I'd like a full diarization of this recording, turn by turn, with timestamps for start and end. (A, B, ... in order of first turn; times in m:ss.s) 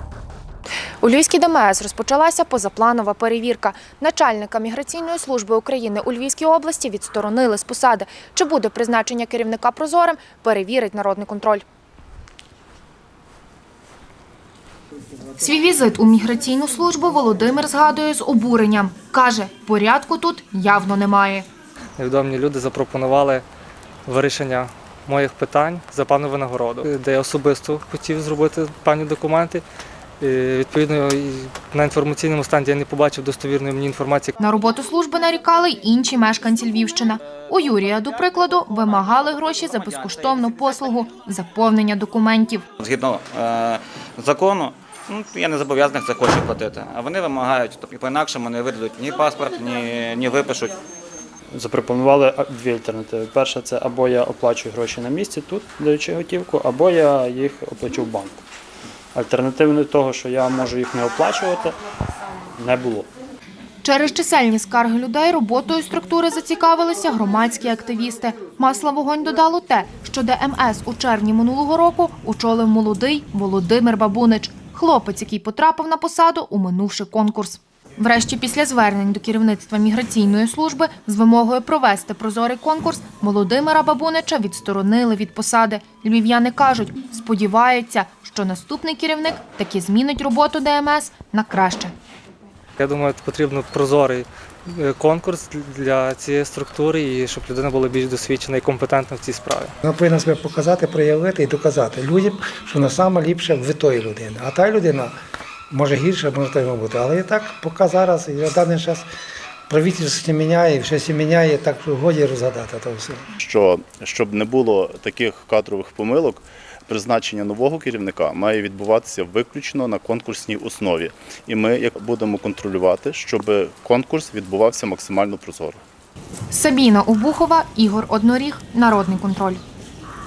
0:01.0-0:11.6 A
0:15.4-0:21.5 A
0:22.0-0:23.4 B
0:24.1-0:29.6 B
0:30.2-0:34.4 B
0:34.4-0:42.6 A
0:42.8-0:50.8 C
0:51.5-0:58.4 D
0:59.1-1:01.8 D
1:02.6-1:03.1 D
1:03.8-1:31.9 A
1:32.8-1:39.7 B
1:39.8-1:45.1 E
1:45.7-1:49.1 E
1:49.7-1:53.2 E
1:53.4-2:05.8 F
2:06.5-2:09.6 A